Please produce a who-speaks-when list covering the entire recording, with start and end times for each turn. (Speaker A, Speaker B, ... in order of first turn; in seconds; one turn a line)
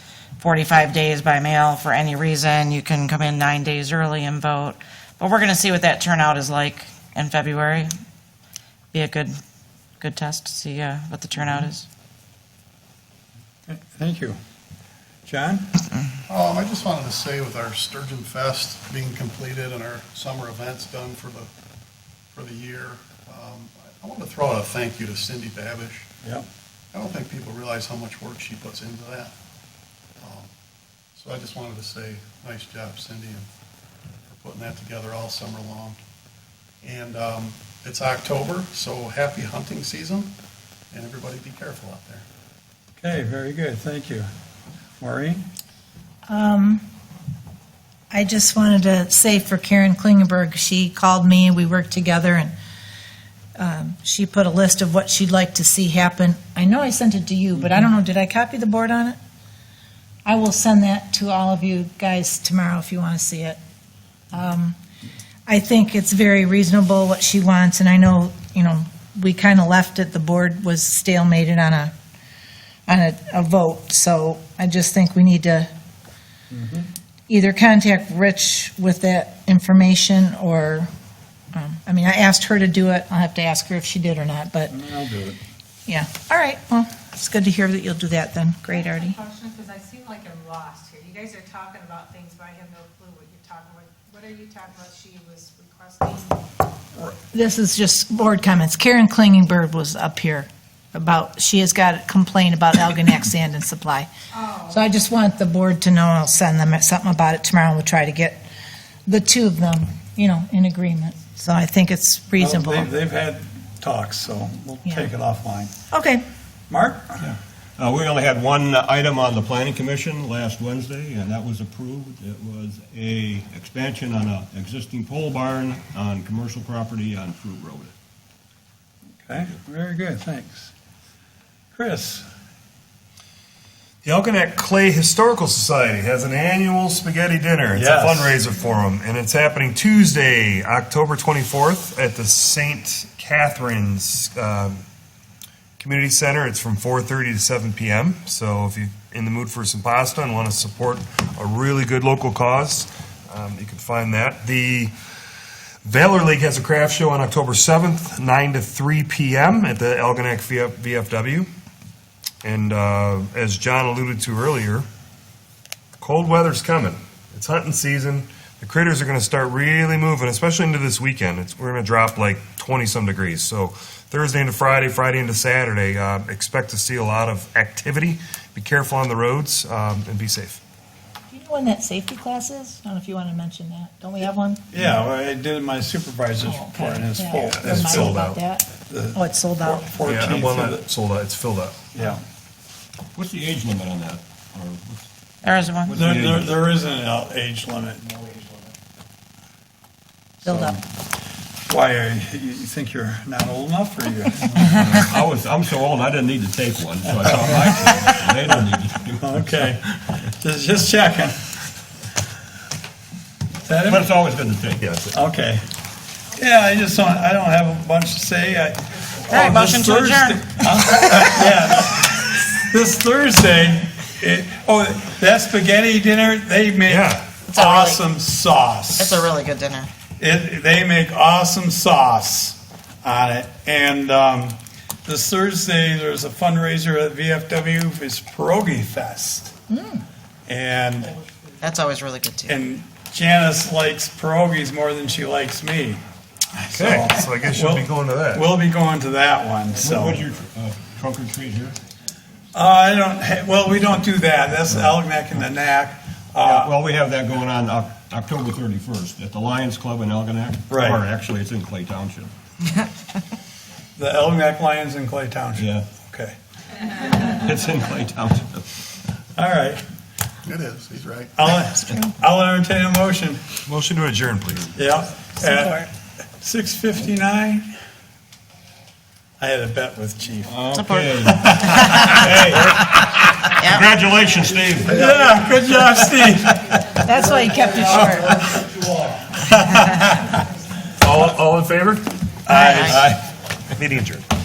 Speaker A: 0.4-7.9
Speaker A: 8.9-9.4
Speaker A: 10.0-11.9
Speaker B: 13.7-14.4
Speaker B: 15.3-15.7
Speaker C: 16.3-21.5
Speaker C: 22.3-26.1
Speaker C: 26.9-29.3
Speaker C: 30.2-30.5
Speaker C: 31.2-33.5
Speaker C: 34.3-36.0
Speaker C: 36.8-40.3
Speaker C: 40.9-42.2
Speaker B: 43.0-44.3
Speaker B: 45.0-45.5
Speaker D: 46.3-46.8
Speaker D: 48.1-52.5
Speaker D: 53.6-59.2
Speaker D: 60.2-63.6
Speaker D: 64.3-64.8
Speaker D: 65.5-71.9
Speaker D: 72.9-75.7
Speaker B: 76.5-76.9
Speaker D: 77.3-80.9
Speaker D: 81.5-84.8
Speaker B: 84.7-85.4
Speaker D: 85.9-89.2
Speaker E: 89.1-96.3
Speaker D: 97.3-104.1
Speaker D: 104.7-108.4
Speaker D: 109.1-112.9
Speaker B: 112.4-115.7
Speaker D: 115.9-116.2
Speaker B: 116.7-117.4
Speaker F: 117.8-127.9
Speaker B: 129.3-130.7
Speaker B: 131.7-132.3
Speaker G: 134.0-144.8
Speaker B: 137.7-138.4
Speaker G: 145.8-154.9
Speaker G: 155.8-161.5
Speaker G: 162.4-164.8
Speaker G: 166.0-180.6
Speaker D: 181.3-184.6
Speaker B: 184.7-188.3
Speaker D: 186.4-189.9
Speaker G: 187.4-188.4
Speaker B: 188.9-190.8
Speaker G: 190.0-191.8
Speaker B: 191.9-192.2
Speaker F: 193.2-195.1
Speaker A: 195.4-195.9
Speaker F: 195.8-196.6
Speaker B: 195.9-198.7
Speaker D: 200.4-200.8
Speaker B: 200.4-200.7
Speaker B: 201.7-204.7
Speaker F: 204.7-209.8
Speaker B: 209.2-211.4
Speaker B: 213.7-214.1
Speaker F: 213.8-214.8
Speaker G: 214.8-215.2
Speaker B: 215.1-215.6
Speaker B: 216.4-229.3
Speaker A: 219.3-220.3
Speaker G: 226.9-227.3
Speaker A: 227.4-228.1
Speaker A: 229.0-229.9
Speaker B: 230.2-239.5
Speaker D: 239.7-240.0
Speaker B: 240.5-241.2
Speaker A: 241.6-242.6
Speaker B: 242.5-246.0
Speaker B: 246.5-250.3
Speaker G: 246.7-248.5
Speaker F: 249.8-251.8
Speaker B: 252.5-256.7
Speaker F: 256.4-262.3
Speaker B: 260.7-261.0
Speaker B: 264.0-266.4
Speaker F: 265.6-265.9
Speaker F: 267.1-268.7
Speaker B: 269.4-269.8
Speaker C: 270.4-271.4
Speaker B: 271.4-273.4
Speaker G: 273.7-274.7
Speaker B: 274.8-277.7
Speaker D: 275.4-275.9
Speaker B: 279.4-280.6
Speaker F: 280.4-285.1
Speaker A: 280.7-281.1
Speaker B: 281.3-282.2
Speaker A: 281.7-282.1
Speaker B: 284.9-286.8
Speaker D: 287.0-288.5
Speaker B: 289.1-290.2
Speaker G: 291.0-292.1
Speaker B: 292.5-293.2
Speaker A: 292.5-293.0
Speaker G: 293.8-294.2